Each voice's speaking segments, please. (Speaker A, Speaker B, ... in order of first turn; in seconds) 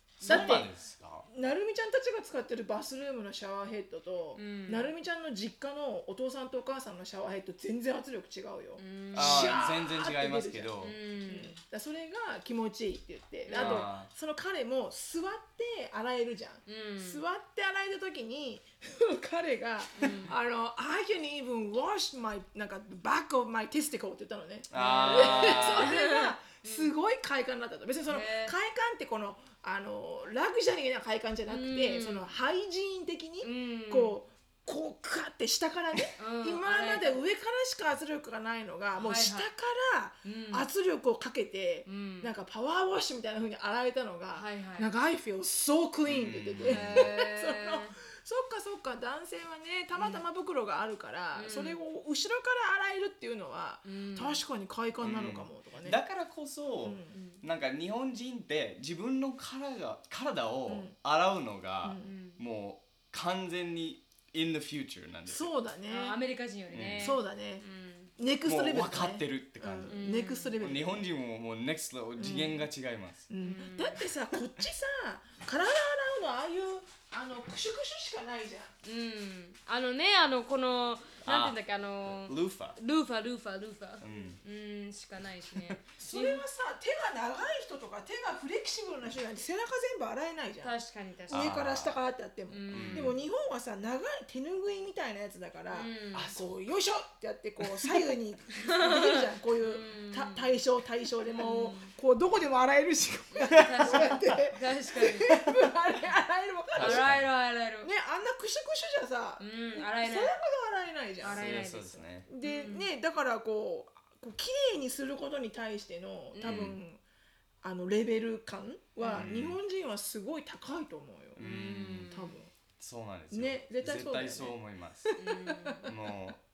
Speaker A: 0.2-1.3, 9.2-11.0, 13.5-14.1, 24.7-26.0, 46.0-47.1, 55.0-65.5, 66.7-67.2, 68.5-70.0, 70.6-73.3, 81.2-82.8, 84.0-84.4, 91.3-92.0, 92.7-93.2, 96.1-96.6, 97.6-97.9, 103.5-104.2, 106.7-107.3, 111.3-112.3, 116.4-116.8, 119.1-119.6, 121.4-122.1, 122.8-125.1, 125.9-126.4
Speaker B: 0.2-0.7, 1.3-56.0, 56.8-57.2, 60.7-61.0, 61.8-62.1, 65.3-66.2, 67.0-67.7, 68.2-71.1, 72.2-72.6, 73.3-78.7, 86.0-90.8, 91.3-107.1, 107.8-111.5, 112.3-117.0, 117.6-121.4, 122.1-122.5, 123.3-125.9
Speaker C: 4.4-4.9, 8.8-9.7, 10.8-11.6, 13.5-13.9, 16.7-17.2, 20.0-20.4, 24.7-26.9, 28.1-28.6, 31.5-32.3, 33.4-34.2, 36.2-37.2, 39.0-39.5, 40.2-40.7, 41.9-42.3, 44.3-44.9, 46.6-48.0, 50.0-50.2, 51.3-51.8, 53.9-54.4, 62.0-62.4, 65.9-68.1, 69.9-70.6, 72.2-72.5, 73.4-74.0, 78.8-86.5, 90.6-91.6, 92.5-93.2, 95.7-96.3, 98.6-100.6, 101.3-101.9, 103.3-105.6, 106.8-107.9, 109.4-110.4, 111.2-112.9, 116.3-116.7, 119.0-119.3, 121.4-122.4, 125.2-125.9